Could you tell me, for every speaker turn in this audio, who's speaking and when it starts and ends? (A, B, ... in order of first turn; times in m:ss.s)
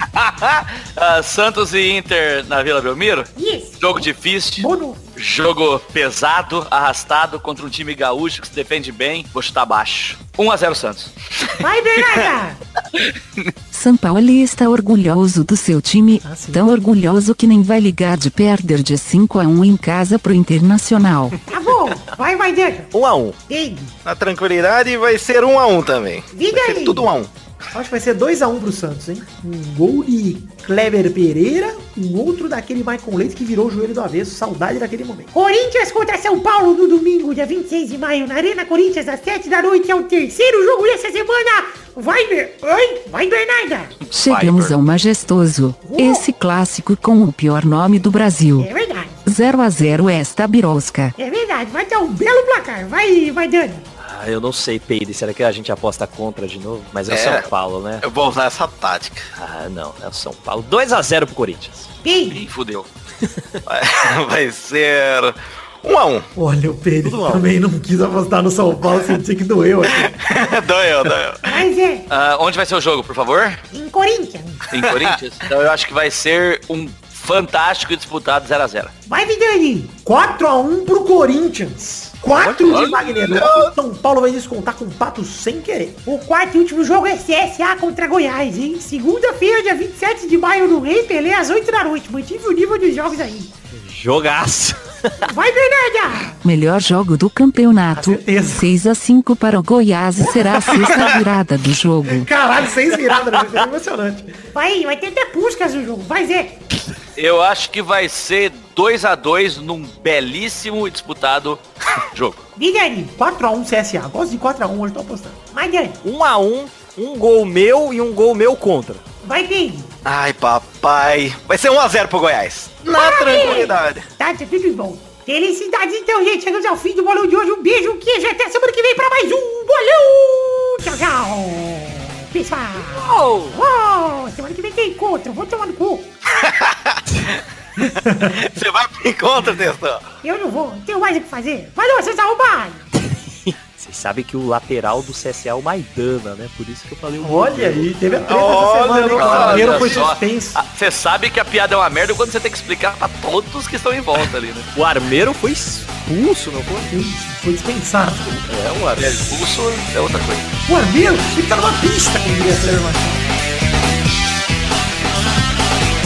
0:00.1-0:03.3 A
0:03.4-0:03.8 B
0:03.8-0:11.6 A
0:04.6-0:05.0 B
0:11.6-0:12.6 B
0:13.0-0:13.5 A
0:13.7-0:21.4 C
0:16.2-0:16.6 D
0:21.5-0:22.9 B
0:22.9-0:23.4 E
0:23.5-0:23.9 B
0:24.0-0:27.3 F
0:26.3-0:27.1 B
0:27.7-0:35.3 D
0:35.3-0:43.9 B
0:44.0-0:44.8 A
0:44.1-0:48.7 C
0:45.8-0:46.2 B
0:48.6-0:49.2 B
0:49.2-0:51.1 C
0:51.2-0:53.8 B
0:54.0-0:58.0 E
0:57.1-0:57.5 F
0:58.0-0:59.3 F
0:59.4-1:01.9 E
1:02.0-1:02.4 B
1:02.3-1:02.9 A
1:03.6-1:06.3 F
1:06.4-1:10.1 D
1:07.0-1:07.5 E
1:10.0-1:11.6 F
1:11.4-1:12.0 B
1:12.1-1:13.6 A
1:13.7-1:14.6 B
1:14.7-1:18.9 A
1:19.1-1:20.0 B
1:20.0-1:26.0 D
1:22.4-1:23.1 A
1:23.3-1:23.7 F
1:26.1-1:33.5 B
1:33.7-1:35.1 E
1:35.2-1:36.4 B
1:36.4-1:42.3 C
1:37.9-1:38.7 D
1:40.2-1:41.1 D
1:42.0-1:44.4 D
1:44.5-1:46.6 B
1:47.2-1:52.4 A
1:52.6-1:53.1 B
1:53.2-1:55.4 D
1:55.5-1:56.0 B
1:56.0-1:59.0 E
1:59.2-1:59.9 B
2:00.0-2:04.1 F
2:02.9-2:16.1 B
2:13.0-2:13.5 A
2:16.3-2:20.0 F
2:18.0-2:18.4 D
2:20.2-2:22.8 B
2:23.0-2:28.2 E
2:27.2-2:30.6 D
2:28.2-2:30.1 F
2:29.2-2:34.7 A
2:34.7-2:36.9 E
2:36.9-2:38.4 D
2:38.5-2:39.2 E
2:39.0-2:40.4 A
2:40.7-2:43.2 D